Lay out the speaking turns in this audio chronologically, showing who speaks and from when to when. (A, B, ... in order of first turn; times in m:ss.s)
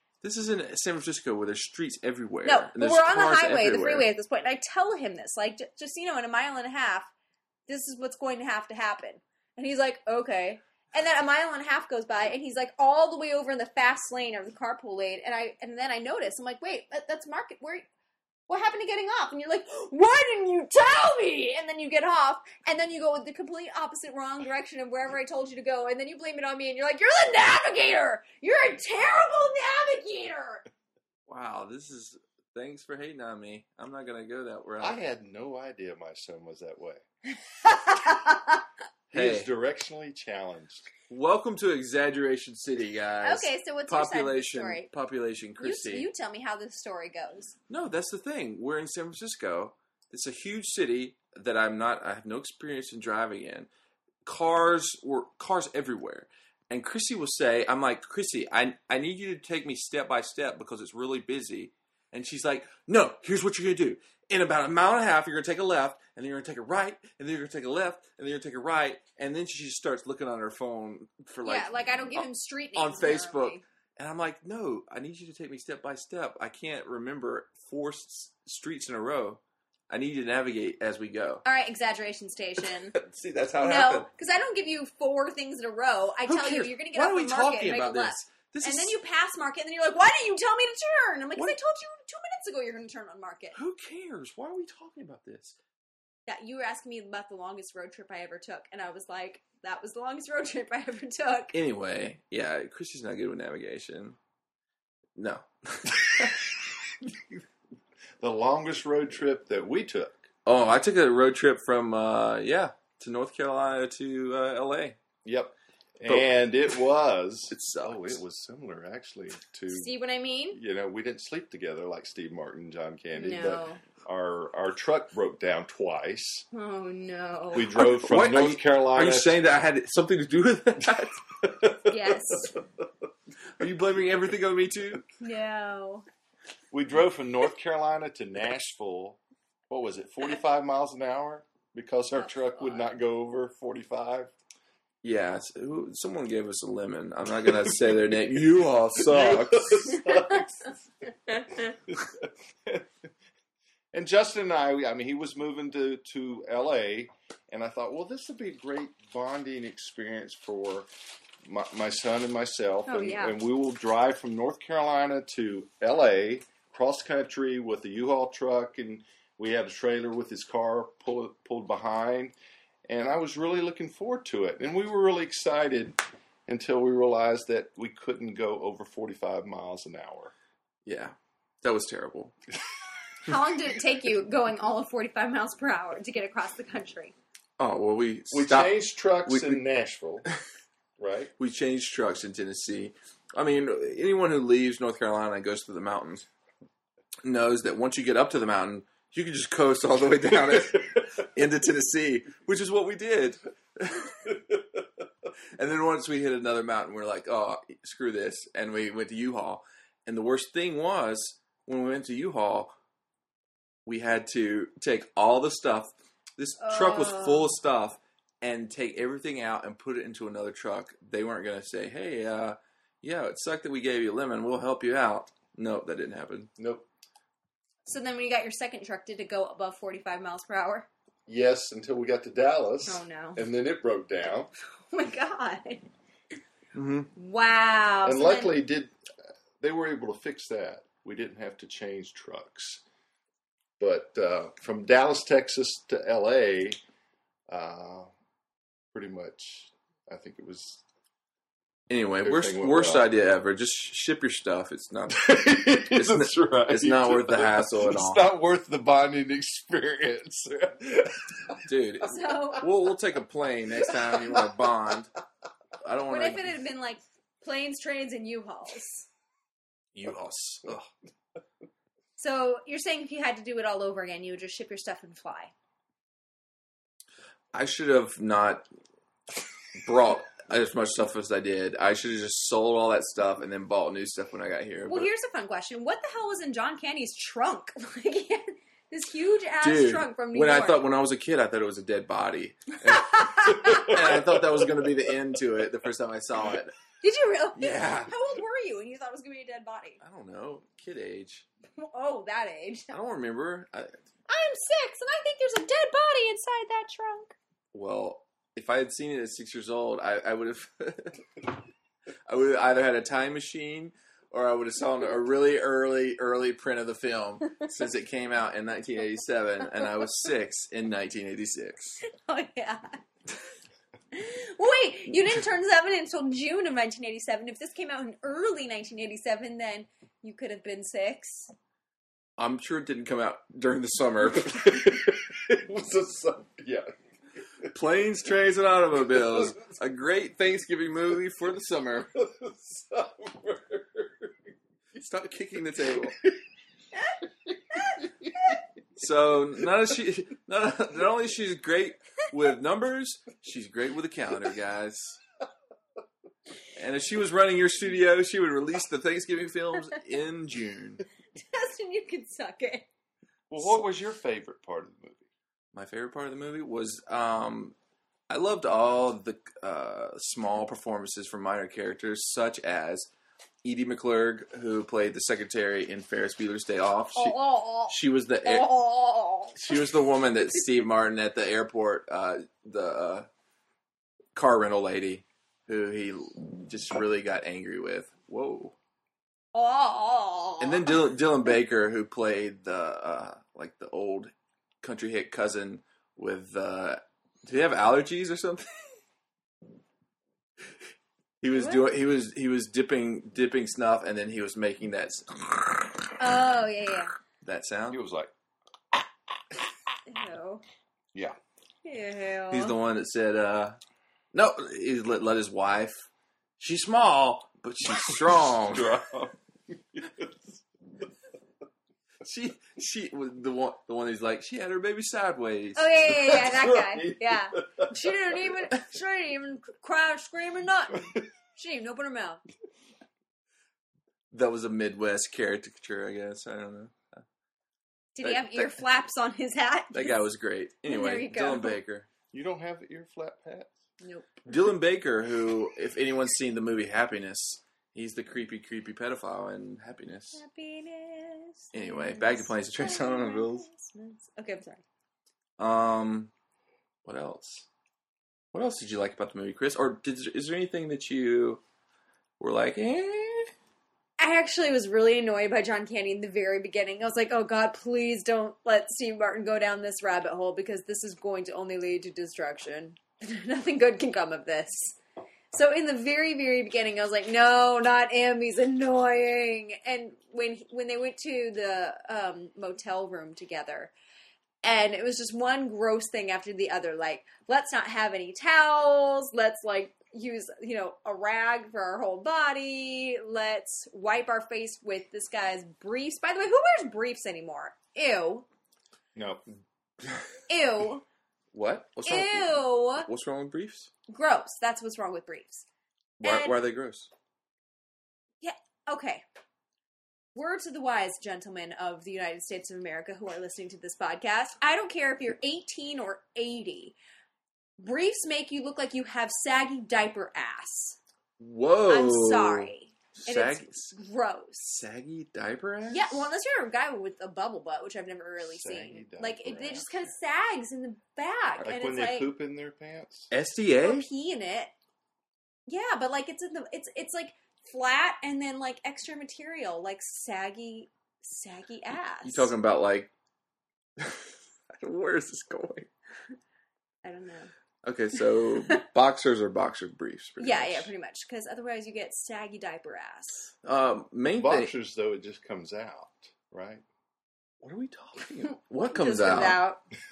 0:00.2-0:04.1 A
0:02.4-0:07.1 B
0:07.7-0:17.8 B
0:18.5-0:30.6 B
0:31.3-0:35.0 A
0:34.8-0:37.0 C
0:37.5-0:38.6 B
0:39.1-0:40.9 C
0:39.1-0:39.5 A
0:41.1-0:46.1 A
0:43.2-0:44.9 B
0:45.6-0:47.6 B
0:47.7-0:53.7 A
0:54.2-1:21.4 A
1:11.4-1:13.6 B
1:21.4-1:22.9 B
1:22.9-1:24.1 A
1:23.6-1:33.6 B
1:26.2-1:29.0 A
1:33.5-1:35.6 A
1:36.3-1:41.6 B
1:41.5-1:44.2 A
1:45.2-1:46.4 A
1:48.2-1:50.3 C
1:50.4-1:55.0 A
1:55.2-1:59.9 C
1:56.0-1:56.3 A
1:57.5-1:58.2 A
1:59.7-2:00.6 B
2:00.5-2:06.4 C
2:03.1-2:03.8 B
2:06.5-2:07.7 B
2:07.5-2:09.4 C
2:07.7-2:11.5 A
2:11.6-2:11.8 C
2:11.9-2:12.6 B
2:13.6-2:15.0 A
2:15.2-2:16.0 B
2:16.7-2:19.2 C
2:19.7-2:24.3 C
2:22.3-2:22.8 B
2:25.0-2:30.1 A
2:29.0-2:30.7 C
2:30.1-2:30.4 B
2:31.9-2:32.8 C
2:33.9-2:40.9 C
2:41.4-2:52.3 C
2:42.9-2:43.3 B
2:52.9-3:00.3 C
3:00.8-3:02.3 A
3:03.2-3:07.1 B
3:07.6-3:09.6 A
3:08.3-3:10.2 C
3:11.0-3:11.3 C
3:11.4-3:16.2 A
3:17.2-3:24.6 A
3:25.5-3:32.7 A
3:33.8-3:46.5 A
3:36.6-3:37.5 B
3:46.6-3:46.8 C
3:47.8-3:50.9 B
3:51.3-3:54.5 C
3:52.8-3:53.4 B
3:54.9-3:55.8 B
3:56.7-3:57.1 A
3:57.2-3:58.5 B
3:58.0-3:58.9 C
3:59.6-4:02.8 C
4:03.8-4:06.8 C
4:07.5-4:08.1 C
4:08.9-4:10.8 C
4:11.9-4:18.2 A
4:12.2-4:13.1 C
4:15.1-4:21.6 C
4:21.6-4:25.1 A
4:22.0-4:22.6 B
4:23.9-4:24.5 C
4:25.8-4:26.6 A
4:26.1-4:29.1 B
4:29.9-4:30.9 A
4:32.2-4:35.5 B
4:37.5-4:38.7 A
4:39.8-4:45.1 A
4:44.9-4:50.8 B
4:49.6-4:56.7 A
4:52.9-4:53.9 B
4:53.9-4:54.2 C
4:57.0-5:00.0 B
4:57.6-4:58.1 A
5:00.0-5:01.5 A
5:01.8-5:02.9 B
5:02.9-5:03.9 A
5:04.3-5:07.3 B
5:07.7-5:11.5 A
5:12.3-5:22.0 A
5:22.0-5:23.0 B
5:24.1-5:31.5 B
5:32.4-5:34.8 A
5:34.3-5:36.9 C
5:37.7-5:42.1 A
5:42.1-5:44.3 C
5:45.0-5:46.2 A
5:46.0-5:46.4 C
5:47.7-5:48.5 C
5:49.0-5:55.2 A
5:56.8-6:01.0 A
6:01.4-6:02.9 B
6:03.5-6:05.3 C
6:05.7-6:07.7 A
6:08.3-6:13.1 A
6:13.6-6:17.4 A
6:17.1-6:19.6 B
6:17.9-6:18.7 A
6:19.6-6:23.3 A
6:24.3-6:28.7 A
6:29.5-6:30.9 B
6:30.6-6:38.8 A
6:41.4-6:45.9 A
6:41.5-6:41.9 B
6:46.2-6:47.1 B
6:47.4-6:48.0 A
6:47.9-6:48.3 C
6:50.1-6:50.6 B
6:51.8-6:52.8 B
6:52.5-6:53.8 A
6:54.3-6:56.1 A
6:56.6-6:59.0 A
6:57.9-7:00.6 C
7:02.2-7:06.4 A
7:05.8-7:12.4 B
7:06.4-7:08.1 C
7:14.3-7:17.2 A
7:18.2-7:20.2 B
7:18.2-7:18.7 A
7:19.9-7:22.1 A
7:20.9-7:21.8 B
7:22.3-7:23.7 C
7:24.0-7:24.4 B
7:24.5-7:30.4 A
7:30.3-7:34.8 B
7:31.7-7:33.6 A
7:35.6-7:36.3 A
7:37.0-7:37.6 A
7:38.5-7:41.6 A
7:42.4-7:43.5 A
7:44.2-7:55.0 B
7:55.5-8:03.9 B
8:04.6-8:18.4 B
8:19.1-8:19.4 C
8:20.5-8:21.0 B
8:21.5-8:23.9 A
8:22.0-8:23.1 B
8:24.1-8:25.6 B
8:26.2-8:27.1 A
8:26.2-8:26.6 B
8:28.4-8:29.2 B
8:30.3-8:36.9 B
8:37.8-8:41.0 B
8:41.4-8:43.9 A
8:41.9-8:44.7 B
8:44.6-8:46.3 A
8:45.9-8:52.3 B
8:48.4-8:49.9 C
8:51.6-8:53.3 C
8:53.3-8:54.1 A
8:53.8-8:54.7 B
8:55.7-9:02.5 B
9:02.2-9:03.1 A
9:04.0-9:05.9 A
9:07.0-9:07.5 B
9:07.8-9:10.9 A
9:10.4-9:13.5 B
9:13.6-9:14.7 A
9:14.3-9:16.8 C
9:17.6-9:19.6 A
9:18.9-9:19.8 B